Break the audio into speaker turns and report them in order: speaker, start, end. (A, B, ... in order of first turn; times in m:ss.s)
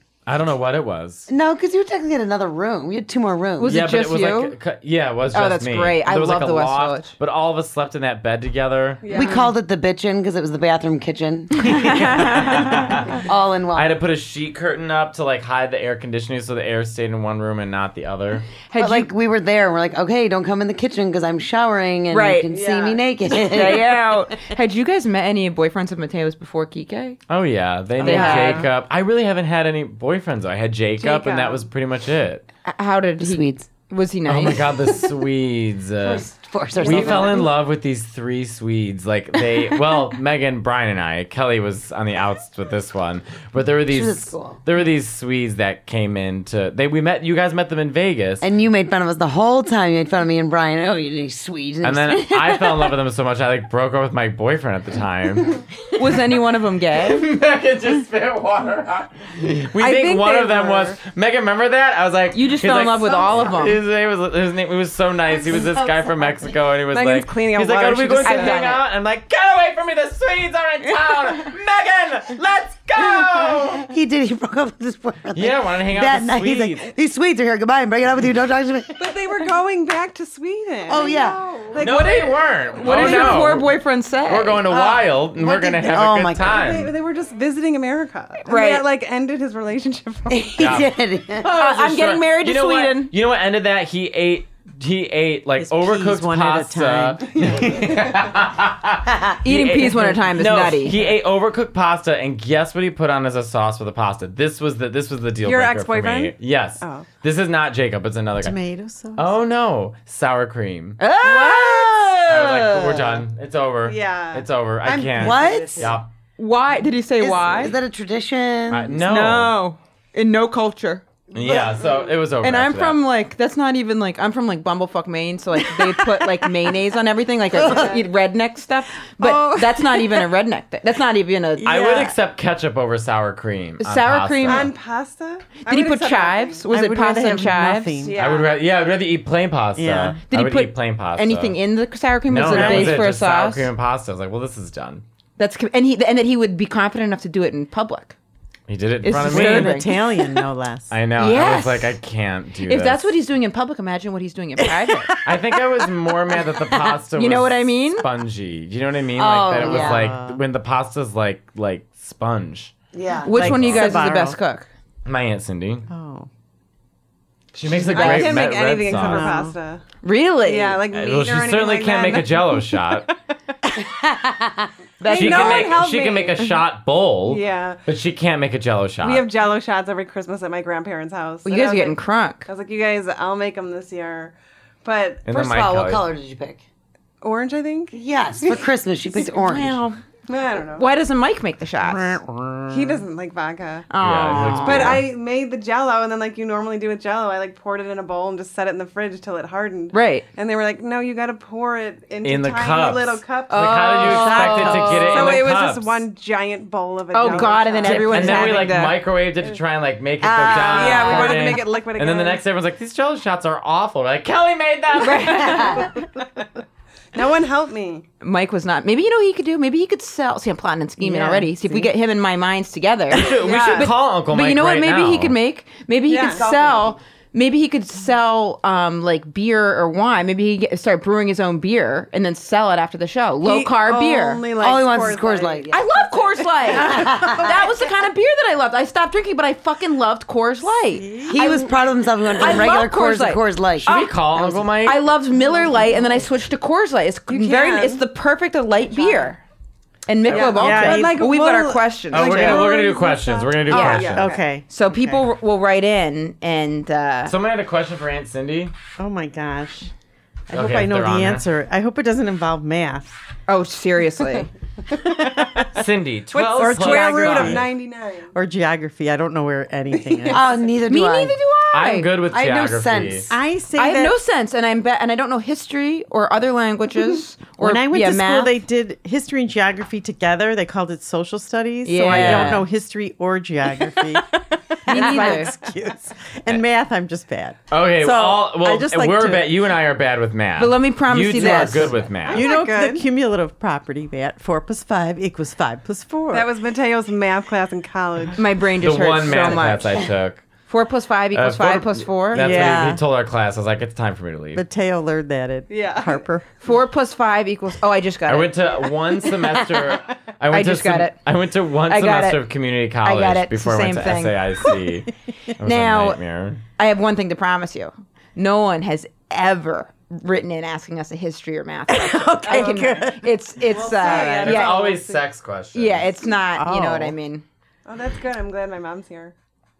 0:00.2-0:01.3 A
0:01.3-0:03.8 B
0:03.6-0:04.5 C
0:03.6-0:09.1 A
0:05.3-0:07.1 C
0:09.0-0:09.4 D
0:09.1-0:13.9 B
0:11.6-0:12.8 C
0:12.0-0:13.2 A
0:13.7-0:18.5 A
0:18.7-0:19.1 C
0:18.8-0:24.1 B
0:22.1-0:22.5 C
0:22.5-0:23.0 D
0:23.3-0:27.2 C
0:27.3-0:32.4 A
0:28.0-0:28.6 C
0:28.0-0:28.6 D
0:31.0-0:31.6 C
0:32.6-0:34.6 C
0:33.2-0:33.7 B
0:34.3-0:36.2 A
0:36.0-0:37.5 B
0:36.8-0:48.5 A
0:36.9-0:37.4 D
0:43.9-0:44.6 B
0:48.4-0:52.4 B
0:51.8-0:55.6 A
0:55.9-0:57.2 C
0:57.0-1:13.9 A
0:59.8-1:01.0 D
1:02.3-1:03.8 C
1:06.9-1:08.7 D
1:08.2-1:08.8 C
1:13.8-1:19.1 B
1:15.3-1:16.9 A
1:19.0-1:23.4 D
1:20.9-1:21.4 B
1:21.7-1:26.9 A
1:22.8-1:24.6 C
1:24.7-1:26.6 B
1:26.4-1:30.6 D
1:28.4-1:28.9 C
1:30.3-1:31.5 B
1:30.6-1:48.6 A
1:31.4-1:33.1 C
1:35.6-1:37.7 E
1:39.4-1:41.0 C
1:45.4-1:47.0 D
1:48.4-1:49.3 E
1:49.2-1:51.0 A
1:51.0-1:53.2 C
1:52.2-1:56.1 A
1:53.8-1:54.4 D
1:54.8-1:56.0 B
1:55.2-1:55.9 E
1:56.4-1:57.8 C
1:57.2-1:58.9 B
1:58.7-1:59.5 A
1:59.0-2:01.0 C
2:01.3-2:03.0 A
2:01.4-2:01.9 B
2:02.4-2:12.0 C
2:07.5-2:07.9 B
2:07.6-2:08.0 D
2:09.2-2:10.2 E
2:11.6-2:14.7 A
2:11.6-2:12.1 E
2:13.8-2:14.7 C
2:14.4-2:16.6 D
2:15.6-2:18.1 C
2:16.7-2:18.2 E
2:18.0-2:18.6 D
2:18.2-2:21.5 A
2:19.8-2:20.2 E
2:20.3-2:23.7 C
2:22.3-2:25.0 A
2:22.5-2:23.0 E
2:25.4-2:28.1 C
2:28.7-2:29.9 A
2:29.0-2:30.0 C
2:29.2-2:30.9 E
2:30.9-2:33.1 A
2:31.2-2:31.9 C
2:32.7-2:35.1 C
2:34.7-2:35.4 E
2:35.2-2:42.7 A
2:37.2-2:38.0 C
2:39.2-2:40.1 B
2:39.6-2:40.4 E
2:42.9-2:43.7 B
2:43.2-2:44.7 C
2:43.3-2:44.4 E
2:43.4-2:43.8 A
2:45.0-2:45.8 A
2:45.9-2:46.3 E
2:47.5-2:49.3 A
2:47.9-2:49.8 D
2:47.9-2:48.3 C
2:48.9-2:49.6 E
2:50.0-2:50.8 C
2:50.4-2:53.0 D
2:50.9-2:53.1 A
2:53.8-2:54.7 B
2:55.0-2:55.8 C
2:55.0-2:56.5 D
2:55.1-2:59.3 A
2:57.3-2:57.8 D
2:59.0-3:05.2 D
3:01.4-3:02.5 C
3:05.2-3:06.1 A
3:05.3-3:06.6 B
3:07.2-3:08.6 D
3:07.9-3:09.8 B
3:09.2-3:10.0 C
3:10.3-3:10.8 D
3:10.8-3:12.2 C
3:11.8-3:12.8 E
3:12.7-3:13.8 D
3:13.9-3:15.0 C
3:14.0-3:15.0 A
3:14.5-3:28.9 D
3:19.9-3:20.2 C
3:22.2-3:26.0 A
3:23.5-3:25.2 C
3:24.1-3:25.3 E
3:27.1-3:29.0 C
3:27.8-3:35.8 A
3:30.3-3:32.4 D
3:30.4-3:31.4 C
3:35.0-3:35.9 C
3:37.1-3:38.0 D
3:38.2-3:54.4 C
3:41.0-3:41.9 E
3:43.1-3:45.4 A
3:43.4-3:43.9 D
3:46.1-3:46.5 D
3:46.2-3:46.9 B
3:53.4-3:55.8 D
3:54.6-3:55.9 B
3:55.7-4:01.7 C
3:56.7-3:57.7 E
3:56.7-3:57.5 B
4:00.9-4:01.6 E
4:01.3-4:04.6 B
4:02.4-4:04.2 C
4:03.8-4:05.0 A
4:04.8-4:09.4 C
4:07.3-4:08.0 D
4:08.9-4:09.3 D
4:10.1-4:12.6 C
4:10.3-4:14.4 D
4:10.3-4:11.3 E
4:12.1-4:14.3 A
4:13.7-4:17.3 C
4:14.1-4:15.2 E
4:17.2-4:18.7 A
4:19.0-4:19.9 E
4:20.5-4:23.1 E
4:20.5-4:21.4 A
4:23.5-4:24.5 C
4:24.9-4:25.6 E
4:25.7-4:27.7 A
4:26.3-4:28.3 D
4:26.5-4:27.7 E
4:28.3-4:30.4 E
4:29.9-4:30.7 D
4:30.3-4:31.4 B
4:30.9-4:32.1 C
4:31.7-4:33.3 A
4:32.3-4:33.4 B
4:33.3-4:34.2 E
4:33.8-4:38.5 C
4:37.6-4:49.6 E
4:41.8-4:42.6 C
4:42.1-4:42.6 A
4:44.9-4:45.5 C
4:47.7-4:52.5 A
4:50.6-4:52.0 C
4:51.4-4:56.5 E
4:51.6-4:53.0 D
4:56.3-4:58.4 D
4:58.4-5:00.0 C
4:58.8-5:00.4 A
5:00.7-5:02.7 C
5:01.3-5:04.6 A
5:02.3-5:03.0 E
5:04.5-5:06.4 E
5:05.7-5:06.2 D
5:06.6-5:08.6 C
5:08.3-5:16.6 A
5:10.5-5:11.2 C
5:11.9-5:12.5 C
5:13.0-5:14.7 C
5:15.6-5:16.2 C
5:16.8-5:24.9 C
5:21.9-5:23.2 E
5:22.5-5:23.0 D
5:23.6-5:25.2 D
5:24.0-5:26.1 A
5:25.7-5:27.4 C
5:26.5-5:27.1 E
5:27.8-5:29.3 D